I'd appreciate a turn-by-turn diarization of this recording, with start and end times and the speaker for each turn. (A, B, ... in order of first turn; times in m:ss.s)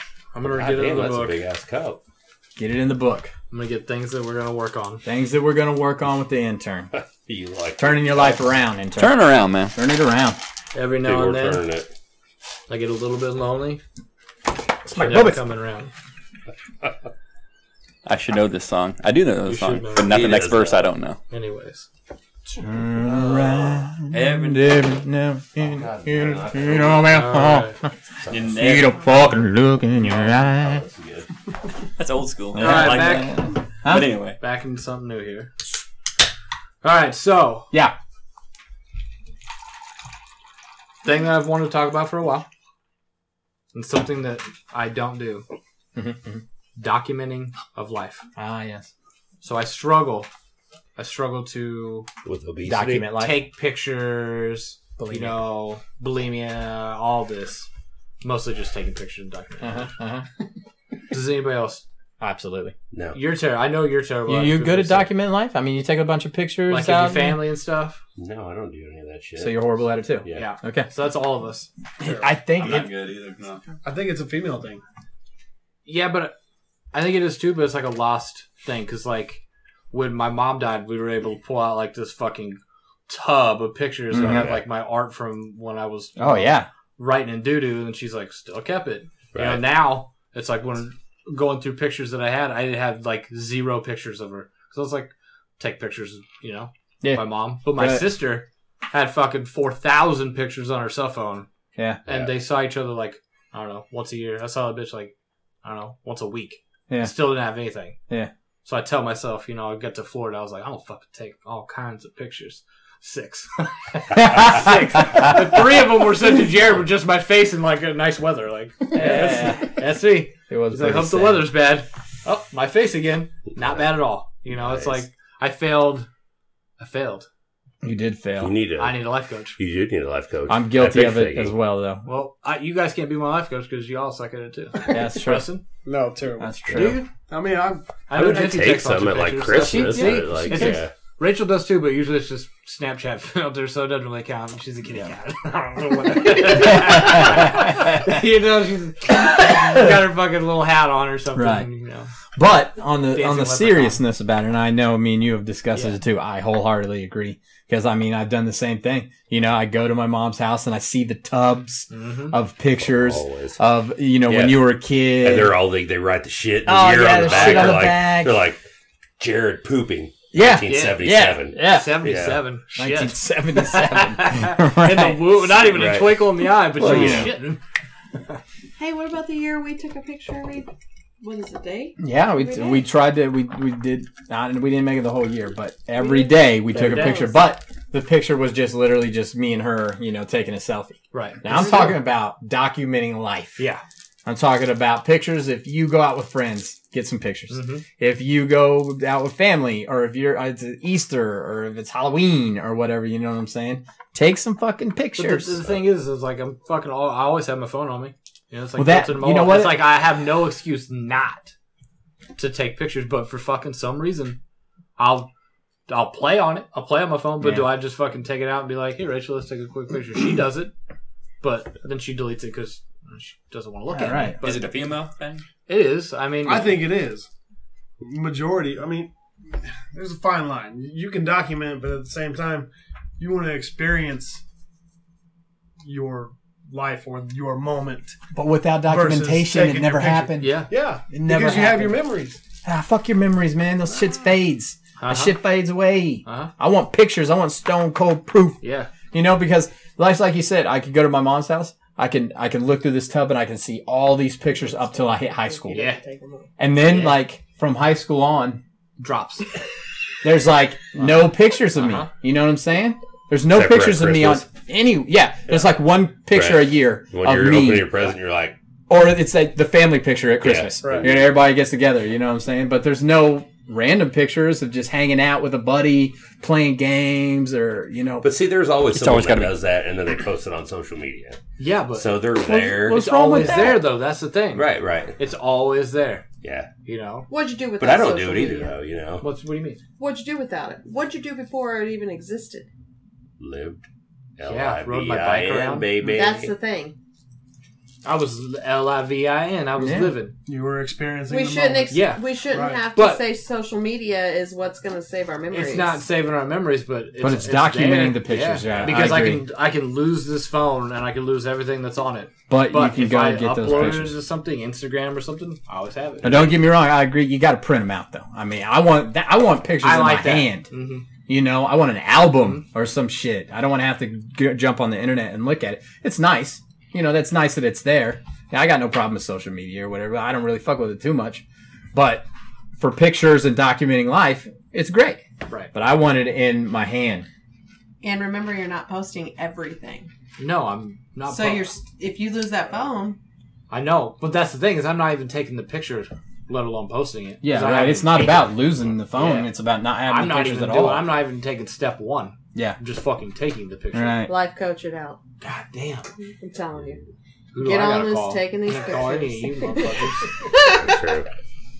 0:00.3-0:01.4 A
0:00.4-0:02.0 B
0:02.6-0:03.3 C
0:03.5-0:05.0 A
0:05.0-0:06.9 C
0:06.9-0:08.4 B
0:07.8-0:10.4 C
0:09.0-0:09.8 D
0:10.7-0:11.6 A
0:11.0-0:11.9 B
0:12.7-0:13.8 A
0:14.8-0:15.4 C
0:14.9-0:15.9 A
0:18.0-0:21.2 D
0:19.4-0:20.2 A
0:20.0-0:20.8 B
0:21.3-0:21.9 A
0:22.5-0:27.9 C
0:23.0-0:23.9 B
0:24.1-0:24.9 D
0:25.6-0:27.3 B
0:27.1-0:27.8 A
0:28.2-0:28.6 B
0:28.3-0:29.0 D
0:28.5-0:30.8 C
0:30.0-0:31.3 B
0:32.0-0:34.4 D
0:32.5-0:34.1 C
0:32.6-0:33.4 A
0:34.4-0:35.5 A
0:36.8-0:37.7 A
0:41.0-0:42.4 A
0:43.7-0:45.4 A
0:46.0-0:46.4 C
0:46.8-0:48.2 A
0:48.4-0:48.9 C
0:49.4-0:50.3 A
0:51.0-0:52.1 A
0:52.2-0:53.1 B
0:52.6-0:53.4 C
0:53.0-0:57.7 A
0:55.0-0:55.4 C
0:58.2-0:59.9 A
0:59.6-1:00.3 C
1:01.1-1:01.8 A
1:02.2-1:02.7 C
1:02.9-1:03.2 B
1:03.1-1:05.1 A
1:04.3-1:07.5 C
1:06.7-1:08.0 A
1:08.2-1:10.5 B
1:09.4-1:10.9 C
1:10.3-1:11.7 A
1:12.0-1:12.9 C
1:12.5-1:13.6 D
1:13.8-1:14.8 E
1:15.8-1:16.3 A
1:16.9-1:41.5 A
1:24.1-1:24.6 C
1:24.2-1:24.6 B
1:26.2-1:26.7 C
1:29.3-1:29.8 B
1:37.0-1:38.1 C
1:41.8-1:42.0 C
1:42.0-1:48.0 A
1:42.0-1:42.3 B
1:46.9-1:47.4 C
1:48.6-2:06.1 A
1:54.1-1:55.4 C
1:58.9-1:59.8 C
2:00.5-2:01.5 C
2:04.5-2:05.0 B
2:06.8-2:07.3 A
2:07.8-2:08.5 C
2:08.4-2:11.5 B
2:08.8-2:09.6 A
2:10.5-2:12.1 C
2:12.0-2:15.6 A
2:14.8-2:15.5 C
2:15.8-2:16.5 E
2:16.4-2:17.0 C
2:16.7-2:17.0 B
2:16.7-2:17.1 A
2:17.3-2:18.0 E
2:18.1-2:32.1 A
2:18.1-2:20.9 B
2:19.4-2:20.8 C
2:26.3-2:28.0 C
2:31.3-2:31.7 C
2:32.4-2:45.6 C
2:33.1-2:34.0 A
2:35.7-2:36.0 A
2:41.9-2:42.4 A
2:42.8-2:43.6 B
2:44.2-2:48.6 B
2:46.6-2:48.4 C
2:47.2-2:47.8 A
2:49.2-2:52.4 B
2:50.3-2:52.1 C
2:50.7-2:57.6 A
2:52.7-2:55.5 C
2:55.6-2:57.4 B
2:56.8-2:57.3 C
2:58.8-3:00.7 F
3:01.2-3:02.9 F
3:02.0-3:13.6 C
3:05.9-3:07.4 F
3:06.7-3:07.4 A
3:11.1-3:11.9 A
3:11.4-3:12.0 F
3:13.6-3:13.8 A
3:14.2-3:25.6 C
3:17.5-3:17.8 A
3:25.2-3:31.5 A
3:28.8-3:29.9 C
3:32.4-3:34.4 A
3:35.0-3:35.3 A
3:35.9-3:40.7 A
3:37.4-3:37.7 C
3:41.4-3:44.6 A
3:43.9-3:44.4 C
3:44.4-3:45.4 D
3:45.7-3:46.8 A
3:46.4-3:47.3 E
3:48.0-3:54.4 E
3:55.8-3:58.2 E
3:58.3-4:02.0 C
3:58.8-4:02.4 E
4:00.4-4:00.7 A
4:02.6-4:08.6 C
4:05.0-4:05.4 A
4:06.2-4:06.5 A
4:08.6-4:08.9 A
4:09.1-4:15.8 C
4:15.7-4:16.5 E
4:15.7-4:16.0 A
4:16.6-4:18.6 C
4:16.8-4:17.2 A
4:19.0-4:19.5 A
4:20.2-4:28.1 C
4:21.7-4:22.1 A
4:23.5-4:24.4 B
4:26.3-4:28.6 B
4:28.9-4:38.3 C
4:30.4-4:31.3 B
4:30.8-4:31.2 E
4:38.2-4:41.4 B
4:38.9-4:39.5 D
4:41.6-4:42.3 A
4:41.9-4:43.0 B
4:42.4-4:43.8 C
4:42.9-4:46.2 A
4:44.5-4:45.2 B
4:46.4-4:46.7 B
4:46.8-4:47.3 A
4:47.3-4:48.8 F
4:47.8-4:49.2 B
4:49.2-4:49.8 A
4:50.0-4:52.7 F
4:53.4-4:56.5 B
4:54.4-4:55.9 A
4:56.0-4:56.9 F
4:58.0-5:00.3 A
4:59.8-5:00.2 C
5:00.4-5:02.9 E
5:01.3-5:06.0 F
5:01.9-5:03.2 A
5:05.5-5:16.6 A
5:07.2-5:09.5 C
5:08.6-5:09.2 B
5:12.5-5:14.2 C
5:16.2-5:20.7 C
5:19.8-5:21.1 A
5:21.2-5:32.2 C
5:32.8-5:37.3 C
5:38.0-5:40.1 F
5:40.4-5:41.7 A
5:41.2-5:43.2 F
5:43.7-5:49.5 A
5:47.4-5:51.2 C
5:50.0-5:54.3 A
5:53.9-5:54.3 C
5:54.2-5:55.2 F
5:55.4-5:56.1 A
5:56.4-5:57.0 F
5:56.7-5:57.0 B
5:57.5-6:00.3 A
5:57.6-6:01.0 F
6:00.8-6:01.2 B